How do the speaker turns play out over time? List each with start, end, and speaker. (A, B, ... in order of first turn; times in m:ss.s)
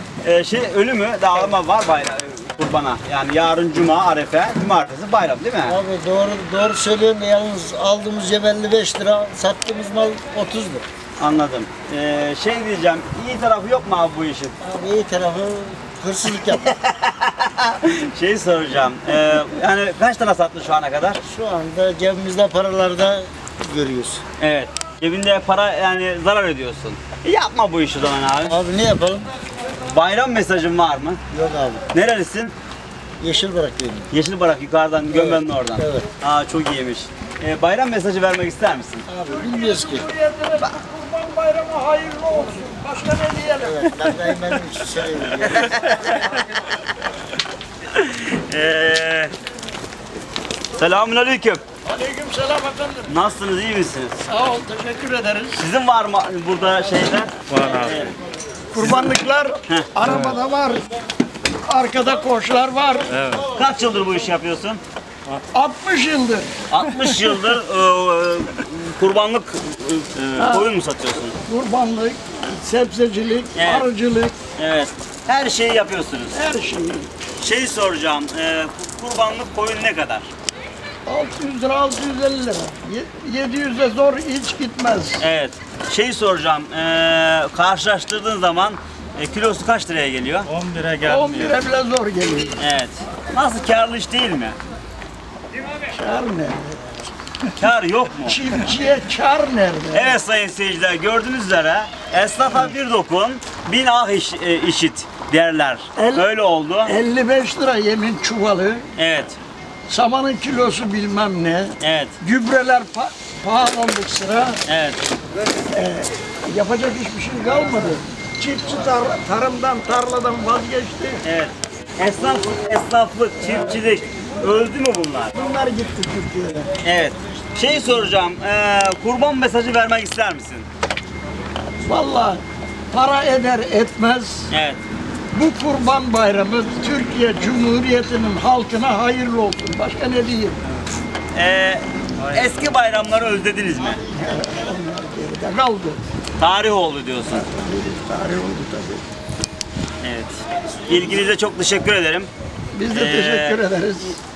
0:00.2-0:05.8 A
0:05.6-0:10.8 B
0:11.2-0:14.5 A
0:14.6-0:16.6 B
0:16.4-0:21.2 A
0:21.2-0:24.2 B
0:24.4-0:28.6 A
0:28.4-0:29.3 B
0:29.8-0:31.2 A
0:31.3-0:31.8 B
0:31.9-0:32.5 A
0:33.2-0:34.1 B
0:34.1-0:39.0 A
0:35.1-0:36.1 B
0:39.1-0:40.1 B
0:39.2-0:44.0 C
0:43.6-0:45.8 B
0:45.5-0:46.2 A
0:47.9-0:49.3 A
0:50.8-0:51.6 A
0:51.8-0:53.1 C
0:53.1-0:54.2 A
0:54.3-0:55.6 C
0:55.6-0:58.1 A
0:57.5-0:57.9 D
0:58.7-1:00.8 C
0:58.8-0:59.0 A
1:00.0-1:00.3 D
1:01.6-1:03.2 C
1:03.1-1:03.4 D
1:03.4-1:04.8 A
1:05.5-1:06.5 C
1:06.7-1:11.3 A
1:10.4-1:10.7 C
1:11.4-1:14.4 C
1:13.5-1:13.9 A
1:14.6-1:16.4 A
1:16.3-1:17.1 C
1:17.4-1:20.3 A
1:21.0-1:25.2 C
1:25.2-1:30.5 A
1:30.5-1:31.5 D
1:31.0-1:32.6 C
1:32.6-1:34.5 A
1:35.8-1:36.9 C
1:37.6-1:38.4 A
1:38.2-1:40.2 C
1:39.9-1:46.9 A
1:46.0-1:46.2 C
1:46.8-1:48.9 C
1:49.0-1:49.4 A
1:49.9-1:54.6 C
1:51.8-1:52.1 A
1:54.6-1:55.0 A
1:55.7-2:01.2 C
2:01.2-2:05.3 A
2:05.3-2:06.7 C
2:06.8-2:10.7 A
2:11.8-2:14.5 C
2:14.5-2:14.8 A
2:15.3-2:20.6 C
2:21.3-2:24.0 A
2:22.2-2:22.5 D
2:24.1-2:26.0 C
2:26.4-2:27.4 A
2:27.3-2:29.0 C
2:30.0-2:32.3 A
2:32.7-2:34.2 C
2:32.9-2:33.6 A